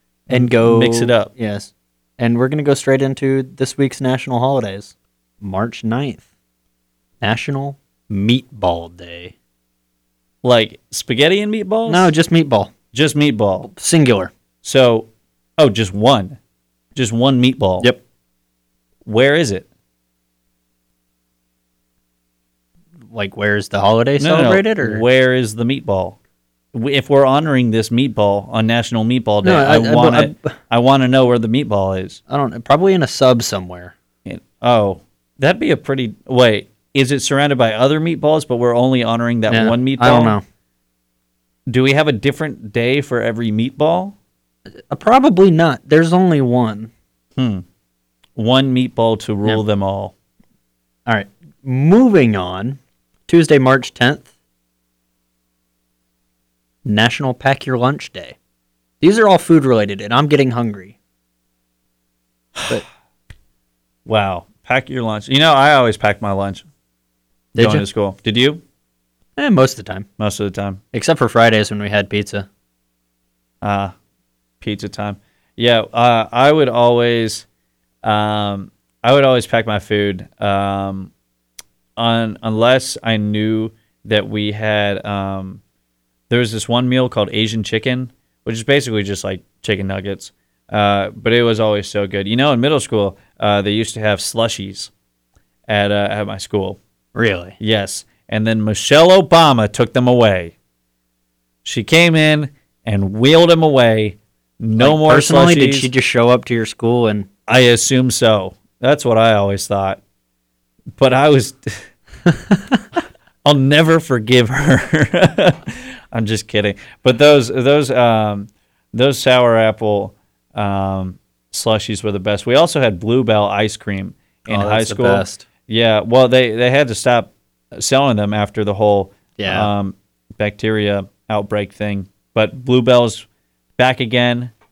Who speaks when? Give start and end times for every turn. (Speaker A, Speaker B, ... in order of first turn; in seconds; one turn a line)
Speaker A: 0.3-1.3
Speaker B: 0.3-6.2
Speaker B: 7.2-9.3
Speaker A: 10.4-12.1
Speaker B: 11.9-12.7
Speaker A: 12.9-13.7
Speaker B: 13.6-14.3
Speaker A: 14.6-16.4
Speaker A: 16.9-17.9
Speaker A: 19.0-19.6
Speaker B: 23.1-25.0
Speaker A: 24.2-26.2
Speaker A: 26.7-32.2
Speaker B: 29.4-30.5
Speaker B: 32.3-33.9
Speaker A: 34.2-40.4
Speaker B: 39.5-40.4
Speaker A: 41.7-44.1
Speaker B: 44.9-46.9
Speaker A: 47.4-47.6
Speaker A: 48.4-50.1
Speaker B: 51.0-54.3
Speaker B: 56.8-58.4
Speaker B: 59.0-61.0
Speaker A: 64.0-66.6
Speaker A: 67.5-68.6
Speaker B: 67.6-67.8
Speaker B: 69.4-70.1
Speaker A: 70.2-70.8
Speaker B: 70.9-72.5
Speaker A: 73.6-73.9
Speaker A: 74.6-77.4
Speaker A: 78.0-81.1
Speaker A: 82.0-85.6
Speaker A: 86.3-94.9
Speaker A: 95.7-96.8
Speaker B: 97.1-97.5
Speaker A: 97.6-100.5
Speaker A: 101.6-105.9
Speaker B: 104.8-107.3
Speaker A: 107.5-110.0
Speaker A: 111.0-111.9
Speaker A: 113.4-133.2
Speaker B: 124.5-125.4
Speaker B: 129.4-129.7
Speaker A: 133.8-134.5